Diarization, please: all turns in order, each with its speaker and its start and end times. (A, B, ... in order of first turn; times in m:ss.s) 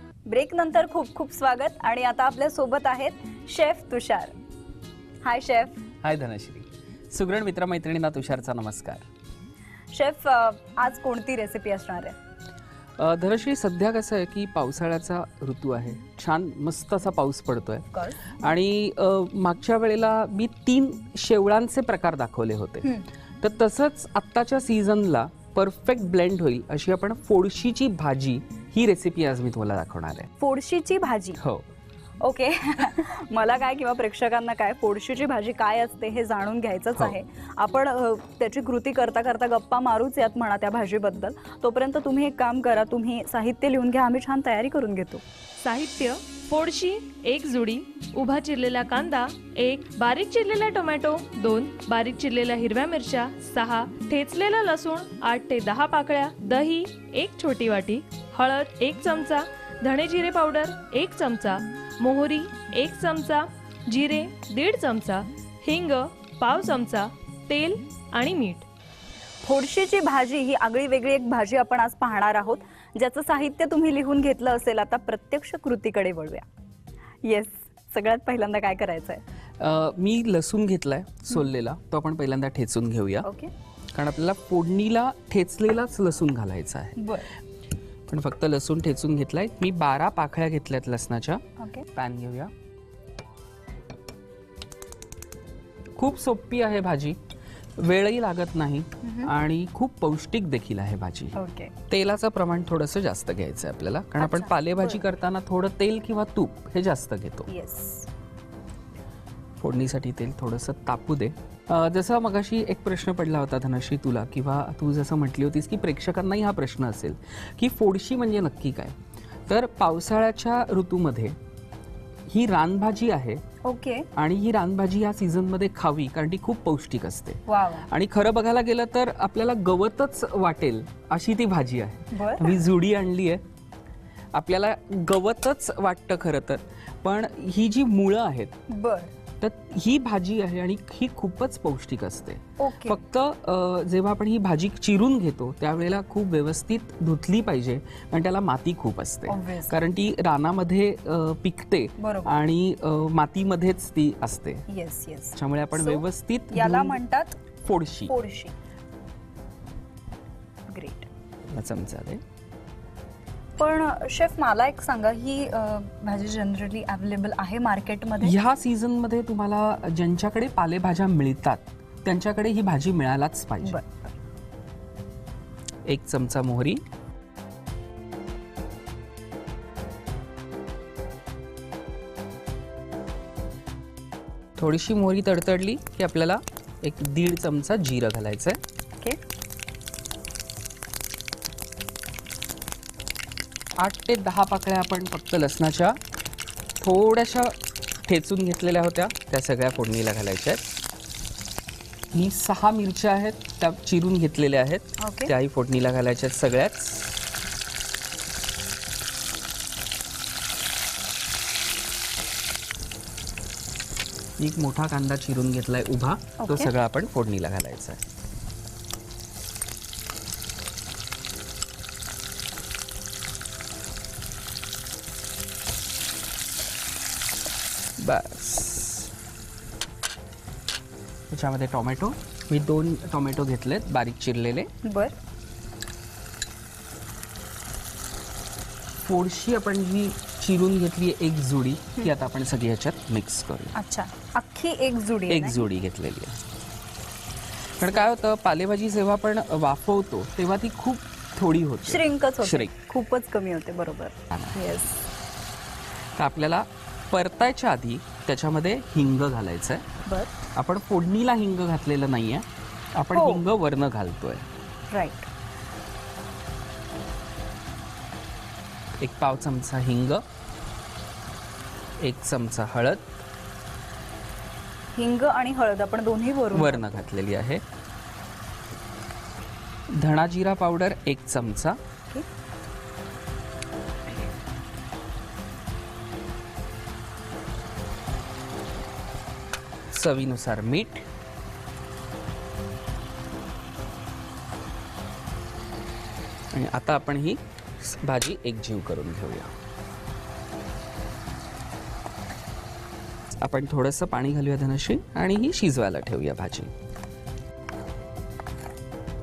0:00.3-0:04.3 A
0:05.2-0:05.8 A
0:06.0-0:09.0 B
0:09.9-0:12.2 A
0:13.0-0:30.3 B
0:30.4-0:31.4 A
0:31.4-0:31.6 B
0:32.2-0:45.2 A
0:45.6-1:08.6 C
1:09.4-1:16.4 A
1:17.2-1:19.2 A
1:19.6-1:23.3 B
1:23.2-1:23.5 A
1:23.9-1:27.0 B
1:27.0-1:27.3 A
1:28.1-1:31.4 B
1:31.9-1:32.5 B
1:36.0-1:37.2 B
1:37.8-1:41.4 B
1:39.0-1:39.3 A
1:41.4-1:41.7 A
1:41.9-1:47.5 B
1:44.2-1:45.0 A
1:47.5-1:48.1 A
1:49.6-1:58.9 B
1:59.5-2:01.4 B
2:02.3-2:03.4 B
2:03.6-2:04.1 A
2:04.2-2:13.4 B
2:07.5-2:07.8 A
2:12.1-2:12.6 A
2:14.3-2:18.6 B
2:18.7-2:19.1 A
2:19.4-2:34.6 B
2:22.6-2:23.0 A
2:29.3-2:29.7 A
2:32.0-2:32.3 A
2:34.7-2:37.4 A
2:35.4-2:37.0 B
2:37.6-2:38.1 B
2:38.1-2:38.5 A
2:40.7-2:41.1 A
2:41.5-2:42.2 B
2:43.6-2:48.3 A
2:48.2-2:53.8 B
2:53.6-2:54.1 A
2:55.8-2:56.8 B
3:04.6-3:08.6 B
3:13.8-3:16.0 B
3:16.8-3:17.5 B
3:18.1-3:20.6 B
3:22.1-3:27.2 B
3:25.0-3:25.3 A
3:34.4-3:38.0 B
3:36.4-3:36.7 A
3:48.0-3:49.1 B
3:51.3-3:54.7 B
3:54.8-3:55.1 A
3:59.0-4:03.8 B
4:03.7-4:05.6 A
4:05.3-4:06.4 B
4:07.8-4:12.7 B
4:11.9-4:15.0 A
4:16.2-4:19.9 B
4:20.1-4:20.3 A
4:20.5-4:24.5 B
4:23.1-4:23.4 A
4:24.9-4:25.3 A
4:29.0-4:30.2 B
4:32.0-4:33.1 B
4:34.9-4:36.8 A
4:36.5-4:37.6 B
4:39.9-4:41.8 B
4:49.9-4:51.0 B
4:56.5-4:59.5 B
5:03.4-5:06.7 B